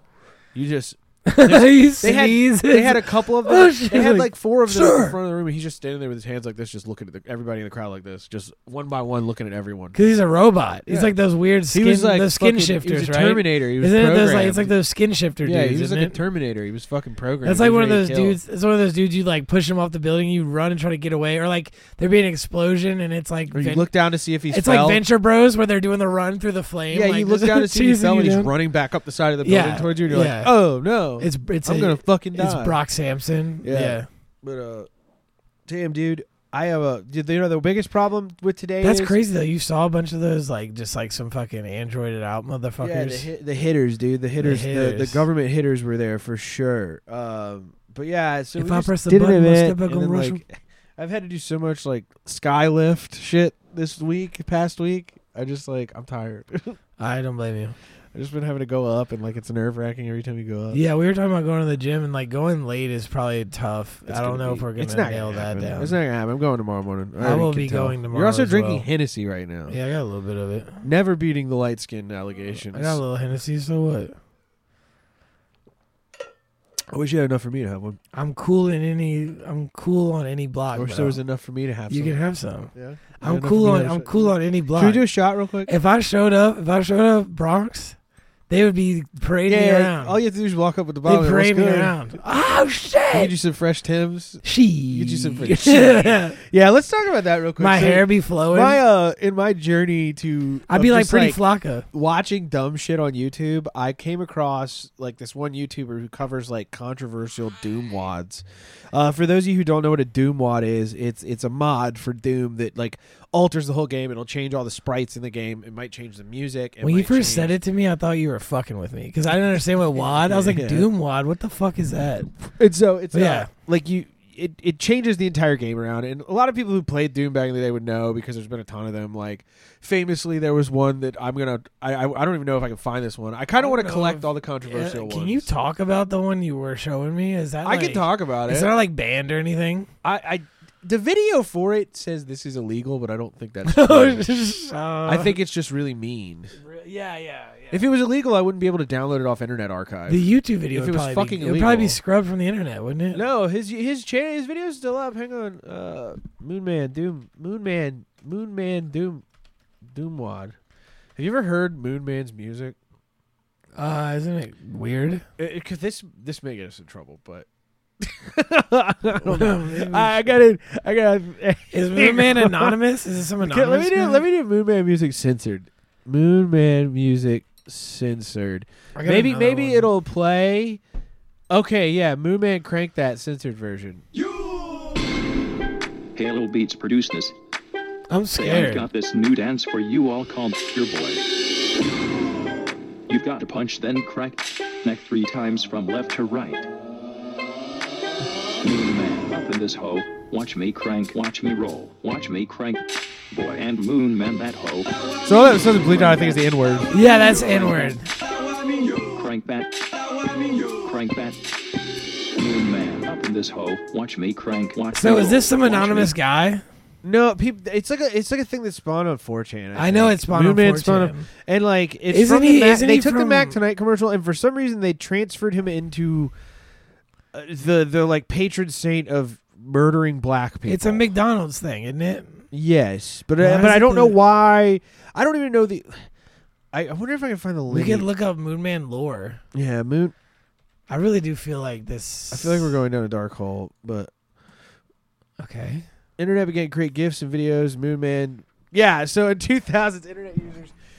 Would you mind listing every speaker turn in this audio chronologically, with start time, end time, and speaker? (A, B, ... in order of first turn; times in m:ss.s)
0:00.5-0:10.0 A
0:01.3-0:05.2 B
0:10.0-0:16.2 B
0:10.9-0:11.2 A
0:11.7-0:14.7 A
0:15.4-0:18.4 A
0:17.4-0:23.9 B
0:23.5-0:25.0 A
0:24.5-0:28.5 B
0:26.9-0:32.8 A
0:29.4-0:30.6 B
0:31.2-0:34.1 B
0:33.6-0:34.9 A
0:35.7-0:39.2 A
0:38.8-0:43.3 B
0:42.8-0:56.8 A
0:44.4-0:45.2 B
0:48.6-0:50.4 B
0:57.0-0:57.8 B
0:58.1-1:00.8 A
1:00.7-1:06.0 B
1:04.1-1:09.8 A
1:07.2-1:08.9 B
1:09.7-1:10.8 B
1:10.8-1:13.0 A
1:12.7-1:14.2 B
1:16.9-1:18.0 A
1:18.1-1:21.2 B
1:20.7-1:25.7 A
1:21.9-1:25.1 B
1:25.7-1:28.0 B
1:28.5-1:30.2 B
1:29.5-1:32.0 A
1:31.0-1:33.3 B
1:33.1-1:41.4 A
1:34.4-1:36.4 B
1:37.6-1:38.8 B
1:40.7-1:41.9 B
1:41.9-1:57.6 A
1:56.8-2:02.5 B
1:59.9-2:00.9 A
2:02.6-2:15.5 A
2:03.1-2:03.5 B
2:13.6-2:19.9 B
2:17.6-2:18.7 A
2:20.0-2:24.2 A
2:23.7-2:25.4 B
2:25.1-2:26.6 A
2:26.6-2:27.8 B
2:27.7-2:32.0 A
2:30.1-2:33.2 B
2:33.1-2:39.2 A
2:39.9-2:40.6 A
2:41.2-2:42.8 A
2:43.8-2:45.2 B
2:45.4-2:47.5 A
2:48.0-2:52.8 A
2:49.2-2:50.2 B
2:51.7-2:54.2 B
2:53.4-3:00.8 A
2:59.0-2:59.9 B
3:01.5-3:04.0 A
3:06.2-3:07.3 C
3:08.1-3:08.9 B
3:08.4-3:11.3 C
3:13.1-3:16.7 C
3:18.6-3:24.9 C
3:25.2-3:26.9 A
3:25.8-3:28.0 C
3:26.9-3:28.1 B
3:28.8-3:31.4 C
3:32.4-3:36.1 C
3:35.0-3:36.6 B
3:37.0-3:46.3 A
3:39.8-3:41.3 B
3:42.1-3:43.6 B
3:47.3-3:51.0 A
3:50.7-3:52.5 B
3:52.5-3:56.1 A
3:53.4-3:54.2 B
3:56.7-3:58.1 A
3:57.7-3:59.4 B
3:59.5-4:00.2 A
4:00.9-4:02.8 B
4:02.3-4:04.1 A
4:05.4-4:05.9 B
4:06.2-4:10.8 A